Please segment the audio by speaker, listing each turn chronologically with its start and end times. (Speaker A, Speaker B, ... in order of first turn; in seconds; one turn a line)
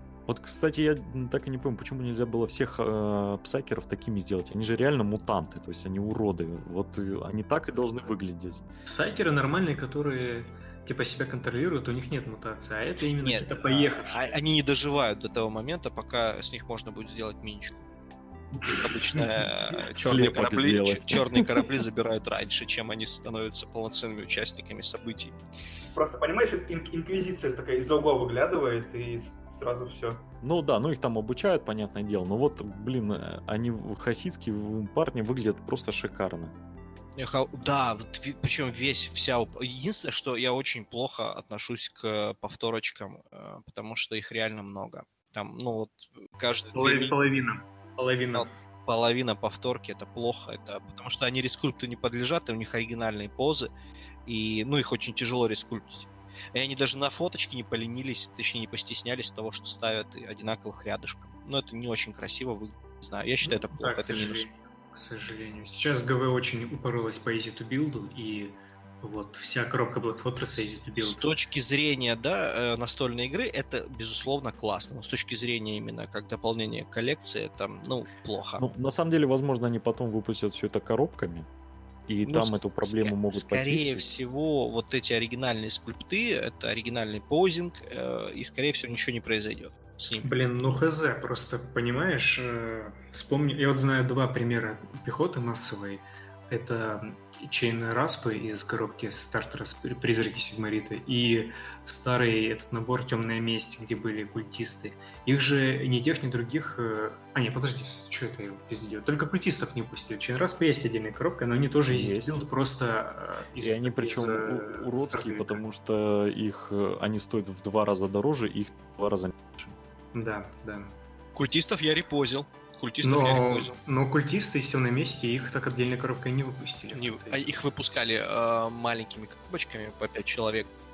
Speaker A: 0.3-8.6
Speaker B: 8.8-14.4
Speaker C: 13.2-17.9
Speaker D: 18.5-19.3
Speaker C: 18.7-25.3
Speaker A: 19.9-21.6
Speaker D: 25.9-30.2
Speaker A: 30.4-36.5
Speaker C: 37.1-47.2
Speaker B: 46.7-48.5
Speaker C: 48.3-53.7
Speaker C: 54.2-64.5
Speaker B: 63.4-71.3
Speaker C: 71.0-78.6
Speaker A: 78.6-81.5
Speaker A: 82.1-84.2
Speaker C: 82.2-90.3
Speaker B: 90.2-115.6
Speaker A: 111.9-112.4
Speaker A: 113.6-119.7
Speaker B: 120.1-120.9
Speaker C: 121.3-123.7
Speaker B: 123.0-127.5
Speaker C: 126.9-130.7